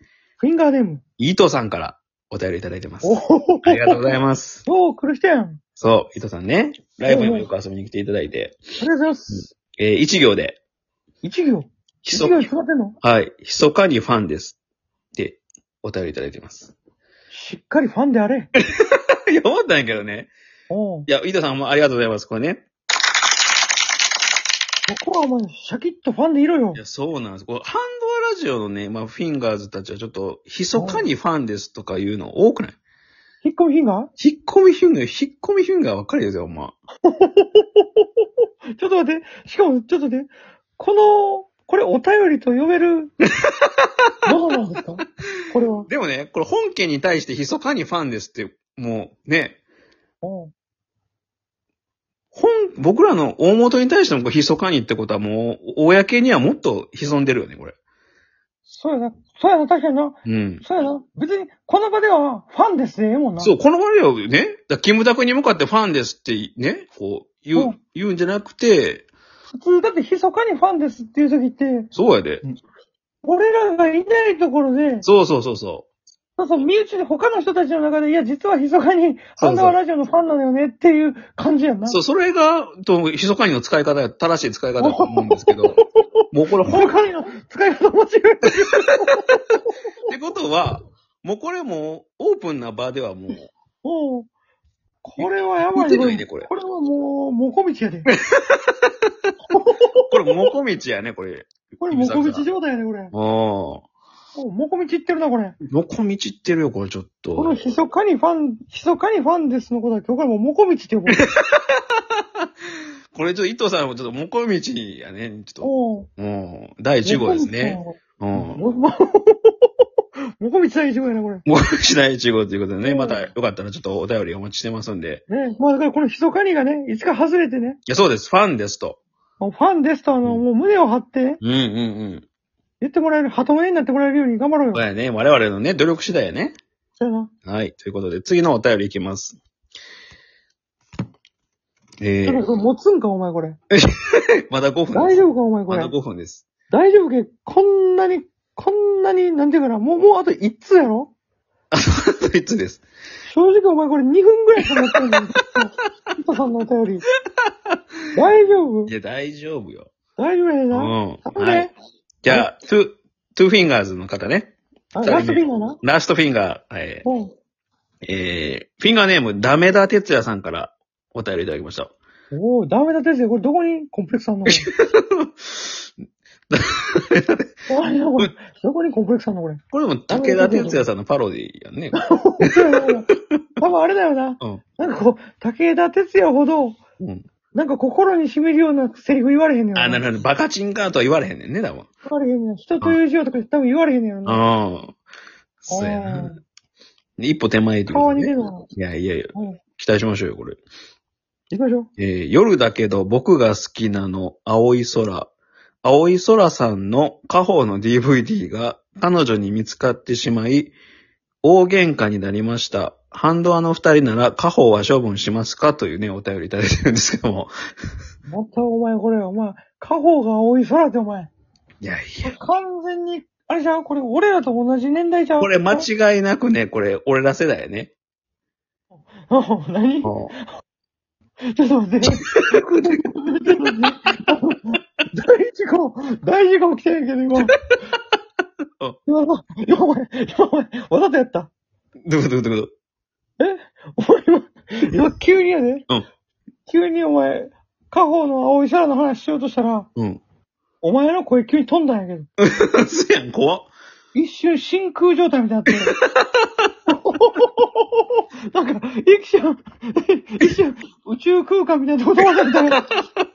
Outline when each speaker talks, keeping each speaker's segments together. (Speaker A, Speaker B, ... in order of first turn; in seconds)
Speaker A: 0.4-1.0, 3.0-4.1, 4.7-5.6, 7.1-7.5, 8.8-9.5, 11.2-13.0, 17.3-18.5, 20.7-21.1, 24.9-26.8, 30.7-31.1, 33.4-34.1, 37.0-38.0, 38.8-43.1, 44.2-45.9, 50.2-50.5, 58.7-63.5, 69.5-71.9, 73.2-75.1, 76.4-82.0, 84.8-86.0, 86.7-89.3, 93.8-94.3, 95.0-98.1, 99.5-100.2, 101.8-103.1, 104.3-105.6, 107.4-111.2, 115.6-116.1, 117.0-119.7, 120.4-121.5, 122.8-123.3, 125.3-127.8, 129.4-131.4, 132.8-134.8, 137.0-137.3, 142.2-143.6, 144.9-145.9, 146.7-151.1, 153.3-157.1, 158.2-158.9, 160.2-161.7, 164.9-165.8, 167.1-167.3, 172.3-174.7, 177.7-180.9, 181.9-183.1, 183.6-186.8, 187.5-190.0, 192.1-194.5, 195.7-196.4, 197.9-198.7, 201.5-201.9, 218.3-221.3, 222.2-225.9, 229.0-230.4, 231.5-237.5, 239.1-241.5, 243.4-245.9, 246.7-249.9, 250.8-252.3, 254.1-255.9, 256.9-263.0
Speaker B: 1.2-4.6, 5.8-8.6, 9.8-10.6, 12.0-12.4, 13.0-14.6, 15.2-16.7, 18.6-20.3, 21.1-22.6, 26.8-32.8, 34.2-36.8, 45.9-49.6, 52.3-57.8, 60.3-60.6, 63.4-69.1, 71.9-72.4, 75.0-75.9, 79.4-79.8, 81.9-86.9, 90.1-93.5, 95.2-96.5, 98.1-98.9, 100.1-102.5, 103.1-103.8, 105.7-107.6, 111.1-111.8, 113.1-118.6, 121.5-125.2, 127.9-129.0, 131.4-132.2, 134.7-136.6, 137.4-139.4, 142.0-142.4, 143.7-146.5, 151.7-152.8, 158.9-159.9, 160.7-161.7, 162.2-167.1, 168.0-171.9, 174.5-175.9, 176.5-177.5, 179.7-182.5, 187.0-187.2, 189.8-191.9, 194.3-194.9, 195.6-196.3, 197.2-200.6, 202.0-205.3, 205.8-210.7, 211.4-217.5, 221.8-222.3, 225.4-227.9, 230.0-230.3, 232.1-232.9, 242.1-242.7, 250.0-250.2, 252.4-253.7, 255.7-256.4, 262.5-263.0